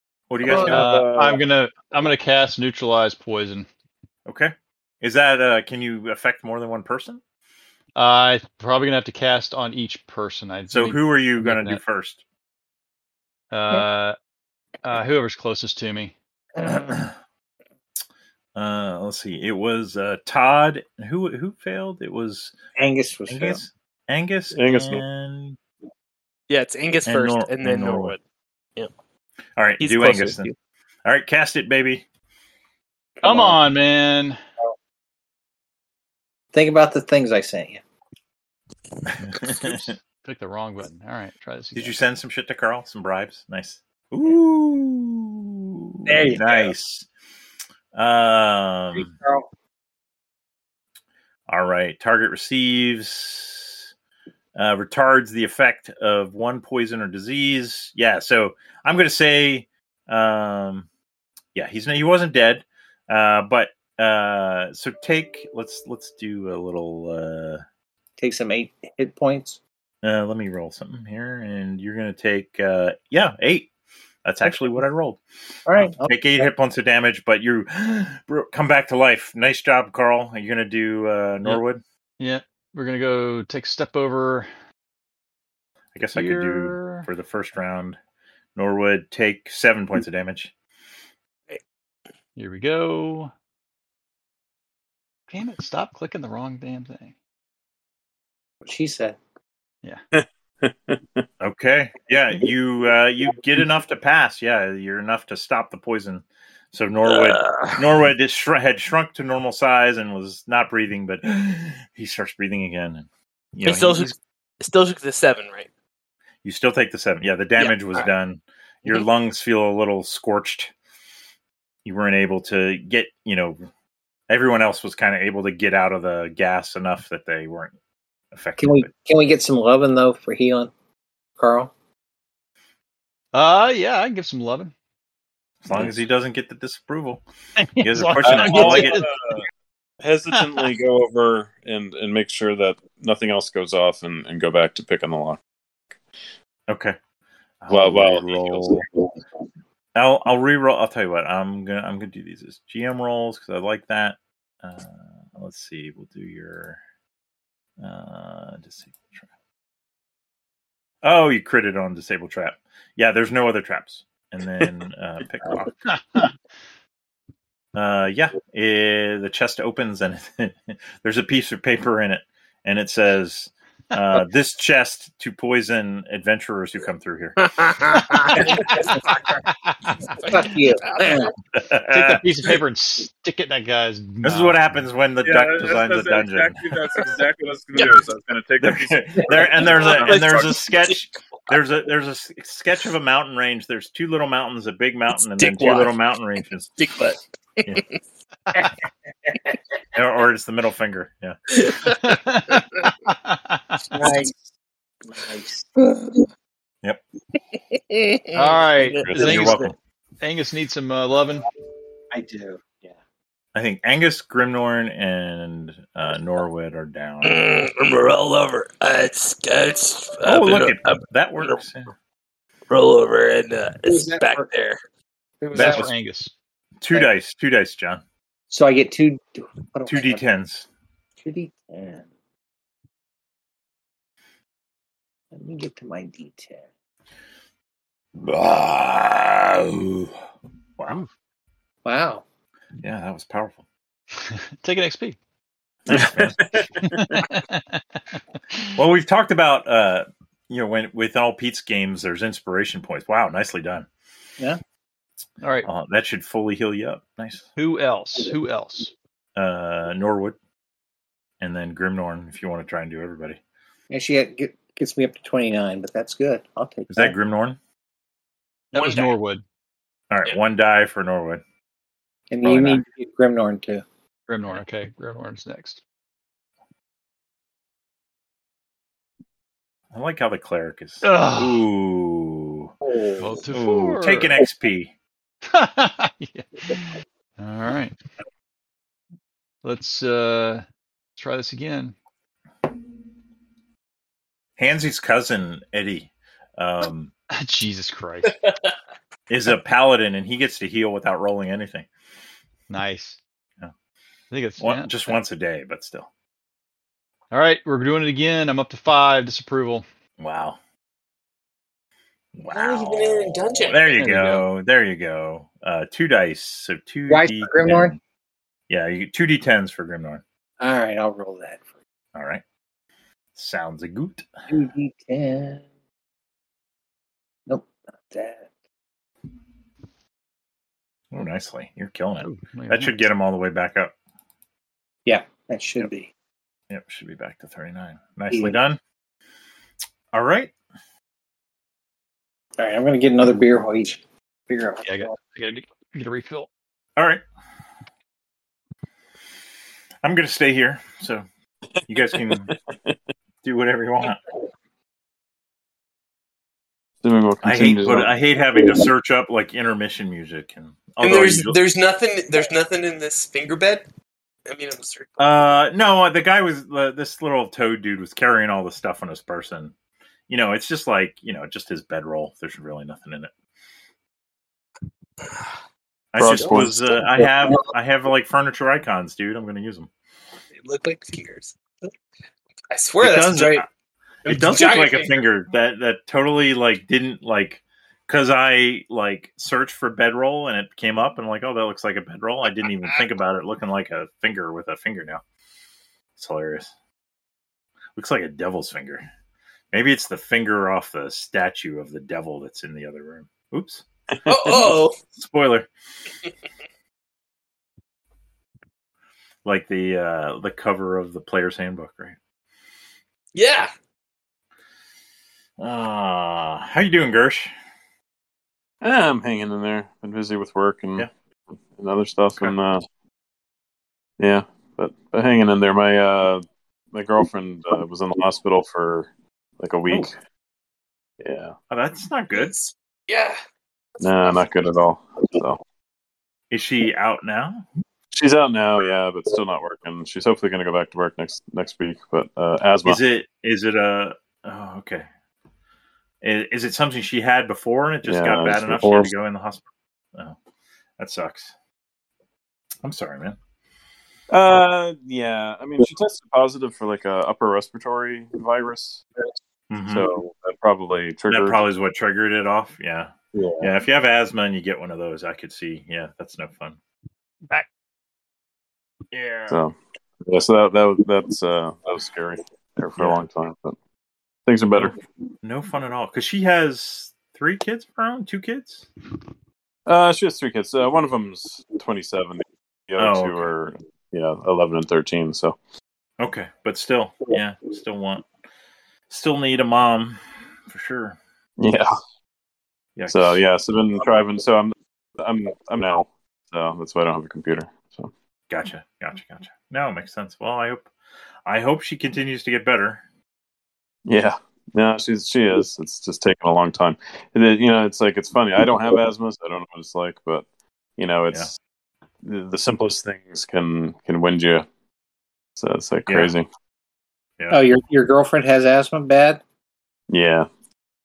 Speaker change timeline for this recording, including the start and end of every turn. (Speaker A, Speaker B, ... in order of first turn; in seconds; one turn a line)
Speaker A: 0.3-0.9
Speaker B: 0.4-1.4
Speaker C: 0.6-3.7
Speaker A: 4.2-7.2
Speaker C: 7.9-11.8
Speaker A: 10.7-12.2
Speaker C: 13.5-14.2
Speaker C: 14.8-16.1
Speaker D: 16.6-16.9
Speaker A: 16.6-17.1
Speaker A: 18.5-22.5
Speaker D: 22.8-23.6
Speaker A: 23.3-25.6
Speaker B: 24.5-25.0
Speaker E: 26.5-28.2
Speaker A: 27.1-28.1
Speaker A: 29.6-30.5
Speaker E: 29.8-30.5
Speaker A: 31.0-32.0
Speaker D: 33.2-33.6
Speaker C: 33.2-34.4
Speaker D: 36.5-37.8
Speaker A: 39.2-39.9
Speaker C: 39.7-42.0
Speaker A: 41.7-47.1
Speaker D: 46.0-46.7
Speaker A: 47.9-49.1
Speaker D: 48.9-49.5
Speaker A: 51.5-53.9
Speaker A: 54.5-60.9
Speaker A: 61.5-67.6
Speaker D: 68.2-69.6
Speaker A: 70.0-73.7
Speaker A: 74.2-81.8
Speaker D: 75.7-76.1
Speaker C: 82.2-84.5
Speaker A: 85.9-88.0
Speaker C: 86.1-87.1
Speaker A: 88.5-90.5
Speaker C: 92.3-93.3
Speaker C: 95.3-97.1
Speaker D: 98.6-99.2
Speaker B: 100.1-101.2
Speaker A: 101.4-114.1
Speaker E: 107.0-107.8
Speaker E: 113.6-115.7
Speaker A: 116.4-120.7
Speaker E: 117.6-118.0
Speaker A: 121.8-123.7
Speaker A: 124.3-127.7
Speaker A: 128.3-128.9
Speaker D: 128.6-130.7
Speaker D: 131.4-131.7
Speaker C: 133.3-134.7
Speaker A: 135.6-137.2
Speaker C: 137.6-139.1
Speaker A: 137.8-139.0
Speaker B: 138.2-139.5
Speaker B: 140.0-145.4
Speaker C: 140.3-140.7
Speaker A: 146.7-146.9
Speaker A: 147.6-148.8
Speaker B: 147.7-148.9
Speaker A: 149.9-156.8
Speaker A: 157.8-159.3
Speaker A: 161.0-165.8
Speaker C: 165.8-166.3
Speaker A: 167.7-177.5
Speaker E: 177.4-178.6
Speaker D: 178.3-179.3
Speaker C: 179.4-180.2
Speaker E: 180.1-181.3
Speaker D: 180.3-181.3
Speaker A: 181.5-182.2
Speaker C: 181.9-184.6
Speaker A: 184.2-186.9
Speaker B: 185.2-190.6
Speaker E: 187.7-188.0
Speaker A: 188.6-196.7
Speaker E: 189.6-191.0
Speaker E: 195.2-196.0
Speaker E: 196.8-197.9
Speaker A: 199.9-201.4
Speaker E: 201.5-202.0
Speaker C: 201.8-203.8
Speaker D: 203.9-204.4
Speaker E: 204.0-204.3
Speaker D: 205.1-206.2
Speaker E: 207.5-209.1
Speaker C: 208.3-211.4
Speaker B: 209.0-209.6
Speaker A: 209.1-209.7
Speaker D: 212.1-212.9
Speaker A: 213.5-217.4
Speaker E: 217.2-221.6
Speaker A: 220.2-221.9
Speaker E: 222.7-224.8
Speaker D: 223.8-224.5
Speaker D: 225.4-225.9
Speaker C: 225.5-226.3
Speaker A: 225.5-225.9
Speaker A: 226.8-228.0
Speaker D: 228.5-230.2
Speaker A: 229.9-230.7
Speaker D: 231.2-232.1
Speaker D: 235.3-236.6
Speaker A: 238.2-240.2
Speaker A: 240.8-241.0
Speaker D: 241.8-242.2
Speaker A: 242.8-243.6
Speaker C: 244.2-245.2
Speaker A: 245.9-246.4
Speaker B: 245.9-247.2
Speaker C: 246.8-248.7
Speaker A: 248.8-253.9
Speaker C: 255.4-255.7
Speaker A: 255.6-257.5
Speaker C: 257.6-258.9
Speaker A: 259.4-260.4
Speaker A: 261.4-263.4
Speaker D: 263.9-267.1
Speaker A: 266.9-267.6
Speaker C: 268.7-269.4
Speaker E: 268.7-269.1
Speaker A: 270.1-271.4
Speaker D: 272.3-273.8
Speaker A: 272.4-272.8
Speaker C: 274.3-275.8
Speaker A: 279.9-282.7
Speaker C: 281.0-281.6
Speaker C: 283.2-284.3
Speaker A: 283.5-284.9
Speaker C: 285.4-287.9
Speaker C: 289.6-290.6
Speaker C: 291.2-291.9
Speaker A: 294.6-297.1
Speaker C: 297.3-298.4
Speaker E: 298.3-298.6
Speaker A: 299.3-301.9
Speaker C: 302.7-303.2
Speaker C: 304.3-305.2
Speaker A: 304.6-306.1
Speaker C: 307.3-309.8
Speaker A: 310.2-310.6
Speaker A: 312.3-318.0
Speaker E: 312.5-314.0
Speaker C: 314.0-314.4
Speaker D: 317.1-317.9
Speaker A: 318.7-320.2
Speaker D: 320.6-321.6
Speaker A: 322.1-322.4
Speaker A: 323.3-324.3
Speaker D: 324.5-325.6
Speaker D: 327.5-328.5
Speaker A: 331.1-333.9
Speaker C: 332.2-333.0
Speaker D: 335.1-336.1
Speaker A: 336.7-338.8
Speaker D: 338.3-338.6
Speaker A: 340.1-340.5
Speaker D: 342.6-345.1
Speaker C: 344.8-346.5
Speaker A: 346.9-347.2
Speaker A: 350.0-351.2
Speaker A: 351.9-352.5
Speaker B: 352.2-352.9
Speaker A: 353.4-354.2
Speaker B: 357.0-358.1
Speaker A: 357.4-361.6
Speaker E: 361.0-363.8
Speaker E: 364.5-365.3
Speaker A: 365.2-369.7
Speaker A: 370.3-373.3
Speaker A: 376.1-379.9
Speaker B: 376.2-377.5
Speaker E: 380.6-381.6
Speaker E: 382.7-383.6
Speaker A: 383.0-383.7
Speaker E: 384.2-385.2
Speaker A: 384.2-395.2
Speaker A: 396.1-396.7
Speaker A: 397.9-399.1
Speaker A: 399.7-405.7
Speaker E: 404.3-405.0
Speaker A: 409.4-412.2
Speaker E: 413.3-413.7
Speaker A: 415.6-417.5
Speaker B: 418.8-421.1
Speaker B: 421.7-422.8
Speaker B: 424.2-430.1
Speaker B: 431.2-431.5
Speaker A: 431.7-432.5
Speaker E: 432.3-433.4
Speaker E: 434.0-434.7
Speaker B: 434.0-435.6
Speaker A: 436.5-437.6
Speaker B: 438.1-443.0
Speaker A: 442.8-445.1
Speaker A: 446.2-450.4
Speaker B: 448.1-449.1
Speaker A: 451.0-451.5
Speaker A: 452.8-453.4
Speaker B: 454.3-459.1
Speaker A: 459.7-460.1
Speaker B: 459.8-461.6
Speaker A: 461.3-466.8
Speaker B: 463.3-463.7
Speaker A: 469.1-469.6
Speaker B: 469.5-473.8
Speaker A: 473.0-473.2
Speaker B: 474.4-475.0
Speaker A: 475.4-478.9
Speaker B: 479.9-485.6
Speaker A: 483.0-483.5
Speaker A: 486.2-488.3
Speaker A: 489.1-491.2
Speaker B: 491.6-491.9
Speaker A: 492.9-493.4
Speaker B: 493.1-498.1
Speaker A: 498.5-500.9
Speaker A: 501.4-503.0
Speaker B: 504.1-510.4
Speaker B: 511.0-511.6
Speaker B: 512.2-514.7
Speaker B: 515.6-516.5
Speaker A: 516.1-516.3
Speaker D: 517.5-519.4
Speaker B: 520.1-520.5